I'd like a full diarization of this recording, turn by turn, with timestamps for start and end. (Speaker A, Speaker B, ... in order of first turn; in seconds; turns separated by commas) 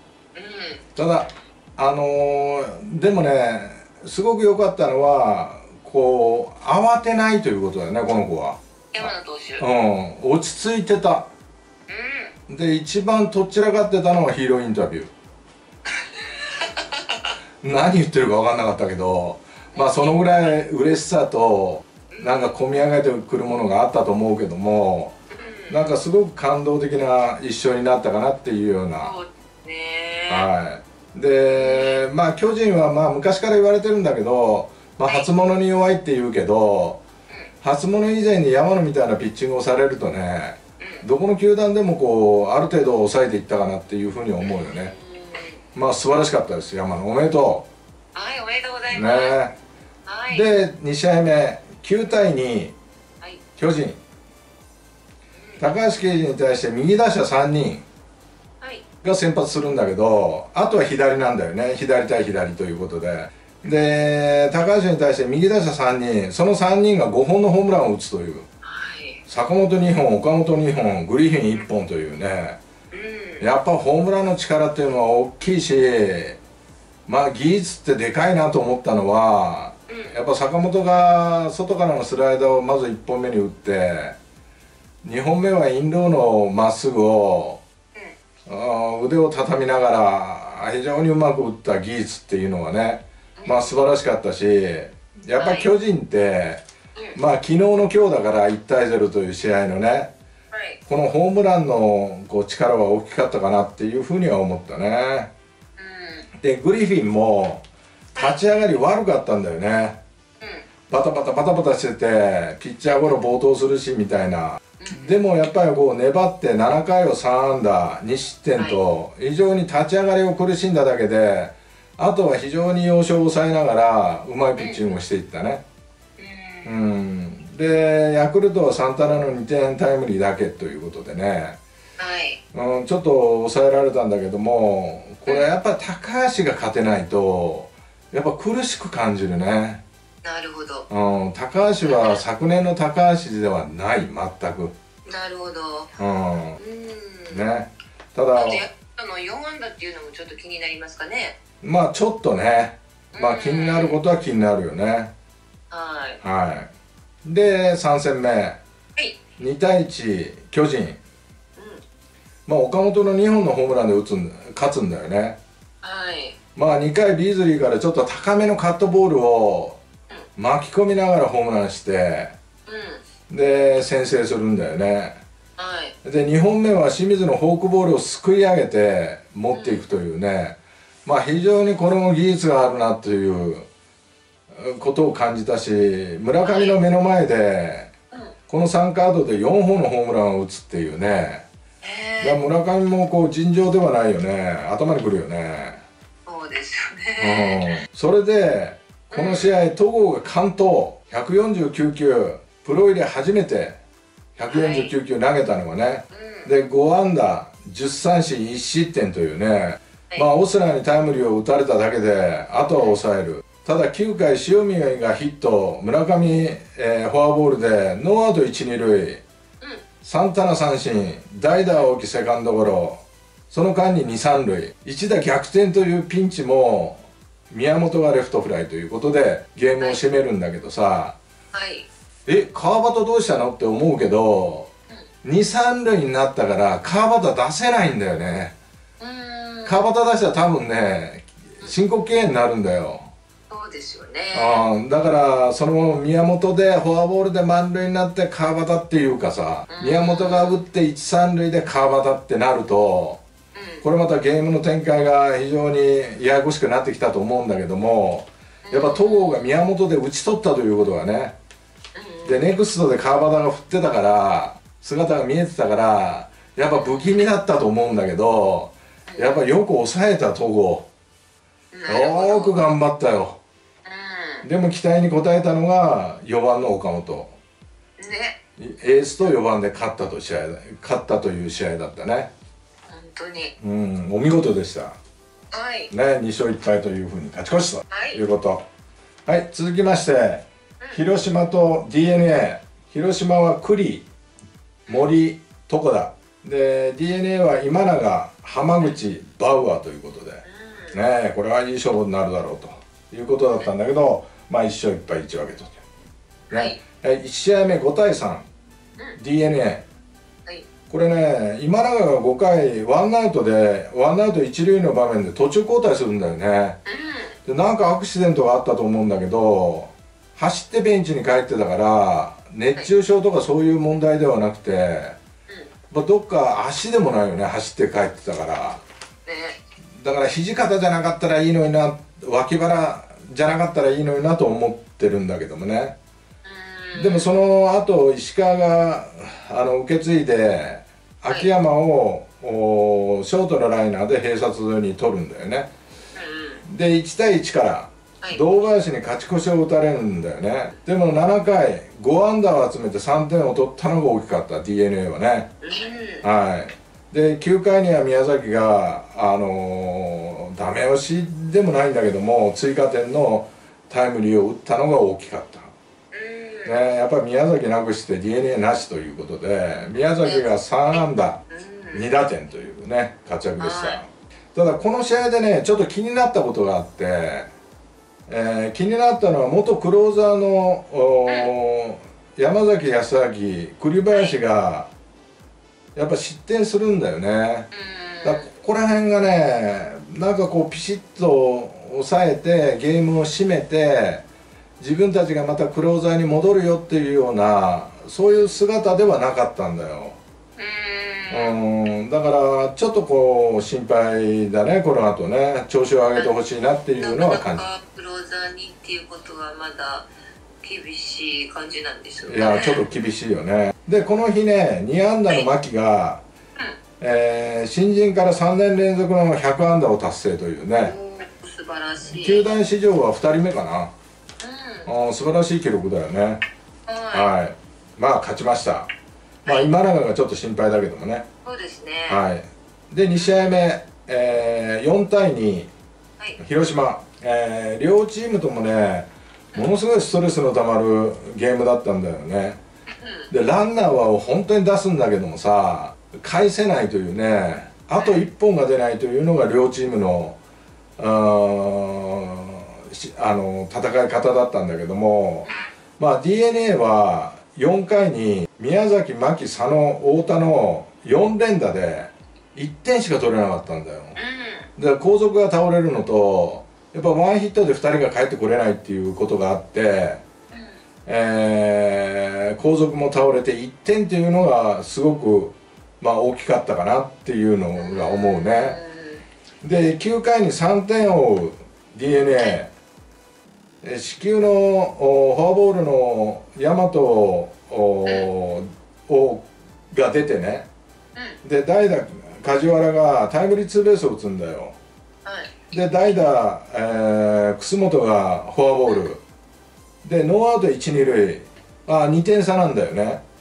Speaker A: 0.3-0.8, Speaker B: 1.0-11.3, Speaker A: 8.9-9.7, Speaker A: 11.9-12.3, Speaker B: 12.5-15.1, Speaker A: 15.9-17.3, Speaker B: 17.6-25.1, Speaker A: 19.7-20.3, Speaker A: 22.1-22.6, Speaker A: 25.3-26.0, Speaker B: 25.7-29.1, Speaker A: 29.0-30.5, Speaker B: 30.3-37.0, Speaker A: 31.5-32.0, Speaker B: 37.6-45.0, Speaker A: 40.8-41.0, Speaker A: 44.4-45.6, Speaker B: 45.7-47.7, Speaker A: 48.1-49.4, Speaker B: 48.9-49.5, Speaker A: 50.1-50.5, Speaker B: 50.3-52.8, Speaker B: 53.6-54.0, Speaker A: 55.4-55.8, Speaker B: 55.6-57.9, Speaker A: 58.6-58.9, Speaker B: 59.0-68.5, Speaker A: 68.6-69.2, Speaker B: 69.3-72.6, Speaker A: 72.9-73.4, Speaker B: 73.4-76.4, Speaker B: 77.1-84.2, Speaker A: 79.9-80.2, Speaker B: 85.0-87.6, Speaker B: 88.5-96.6, Speaker A: 93.4-93.8, Speaker A: 95.4-95.7, Speaker B: 97.1-100.1, Speaker A: 100.5-100.8, Speaker B: 100.9-105.3, Speaker A: 105.8-106.3, Speaker B: 106.4-107.6, Speaker A: 108.2-108.4, Speaker B: 108.2-110.0, Speaker A: 110.4-110.7, Speaker B: 110.9-125.6, Speaker A: 112.9-113.2, Speaker A: 114.8-115.2, Speaker A: 124.6-125.0, Speaker A: 126.2-126.7, Speaker B: 126.6-131.6, Speaker A: 132.0-132.4, Speaker B: 132.5-139.8, Speaker A: 140.2-140.9, Speaker B: 140.9-144.7, Speaker A: 141.8-142.2, Speaker A: 145.1-145.9, Speaker B: 146.0-146.6, Speaker A: 146.6-147.5, Speaker B: 147.3-148.7, Speaker A: 148.3-151.4, Speaker B: 151.6-155.1, Speaker A: 153.1-154.0, Speaker A: 155.7-156.2, Speaker B: 156.2-156.7, Speaker B: 157.2-158.6, Speaker B: 159.4-161.0, Speaker A: 161.6-161.8, Speaker B: 162.5-165.4, Speaker A: 165.8-166.4, Speaker B: 166.6-169.8, Speaker B: 170.4-172.3, Speaker A: 172.7-173.0, Speaker B: 173.3-175.2, Speaker A: 175.6-175.9, Speaker B: 176.0-183.7, Speaker A: 179.5-179.9, Speaker B: 184.5-187.9, Speaker A: 186.4-186.8, Speaker B: 188.5-191.4, Speaker A: 191.8-192.4, Speaker B: 192.2-195.8, Speaker A: 196.3-197.7, Speaker B: 197.2-203.8, Speaker A: 199.1-199.5, Speaker B: 204.4-219.2, Speaker A: 204.5-204.9, Speaker A: 206.1-206.5, Speaker B: 220.0-231.2, Speaker A: 231.5-231.9, Speaker B: 232.3-234.7, Speaker B: 235.2-238.5, Speaker A: 239.0-239.8, Speaker B: 239.7-243.1, Speaker A: 243.5-244.7, Speaker B: 244.3-253.2, Speaker A: 249.7-250.6, Speaker A: 253.6-253.8, Speaker B: 253.8-261.3, Speaker A: 258.7-259.5, Speaker A: 261.9-262.5, Speaker B: 262.2-270.9, Speaker A: 266.7-267.2, Speaker A: 269.1-269.4, Speaker A: 271.7-272.6, Speaker B: 271.9-273.4, Speaker A: 273.9-274.5, Speaker B: 274.4-277.3, Speaker A: 278.0-278.4, Speaker B: 278.6-282.3, Speaker A: 282.9-283.5, Speaker B: 283.6-285.0, Speaker A: 285.5-285.9, Speaker B: 285.9-288.6, Speaker A: 287.9-288.2, Speaker B: 289.3-294.1, Speaker B: 294.9-305.8, Speaker A: 300.4-301.0, Speaker B: 306.5-308.4, Speaker A: 306.5-306.8, Speaker B: 309.2-309.9, Speaker B: 310.9-316.8, Speaker A: 316.9-317.4, Speaker B: 317.5-325.2, Speaker B: 325.9-328.8, Speaker A: 329.3-329.6, Speaker B: 330.0-335.9, Speaker A: 336.4-337.3, Speaker B: 336.9-345.7, Speaker A: 346.1-346.6, Speaker B: 346.6-355.5, Speaker A: 348.2-348.5, Speaker A: 355.6-356.2, Speaker B: 356.2-365.7, Speaker A: 366.1-366.8, Speaker B: 366.7-371.4, Speaker A: 369.7-371.0, Speaker A: 371.5-372.1, Speaker B: 371.9-377.5, Speaker A: 373.6-374.0, Speaker B: 378.3-384.9, Speaker B: 385.9-387.7, Speaker A: 387.7-388.5, Speaker B: 388.2-394.2, Speaker B: 394.8-400.2, Speaker A: 398.2-398.5, Speaker A: 400.6-401.6, Speaker B: 401.3-407.6, Speaker A: 407.0-410.1, Speaker A: 410.6-412.9, Speaker B: 412.3-416.2, Speaker B: 417.0-420.9, Speaker A: 420.8-422.6, Speaker B: 422.1-423.9, Speaker A: 424.4-424.9, Speaker B: 424.9-426.4, Speaker A: 426.9-427.3, Speaker B: 427.1-428.9, Speaker A: 429.4-429.7, Speaker B: 429.5-431.2, Speaker A: 431.4-432.2, Speaker B: 432.1-435.7, Speaker A: 433.2-433.6, Speaker B: 436.4-442.6, Speaker A: 442.9-443.3, Speaker B: 443.3-450.4, Speaker B: 451.0-464.2, Speaker A: 464.2-464.7, Speaker B: 464.8-470.2, Speaker A: 470.5-470.8, Speaker B: 471.1-478.8, Speaker A: 477.8-479.2, Speaker B: 479.6-482.7, Speaker B: 483.8-490.7, Speaker B: 491.4-494.8, Speaker A: 495.2-495.7, Speaker B: 495.7-499.2, Speaker B: 500.0-503.2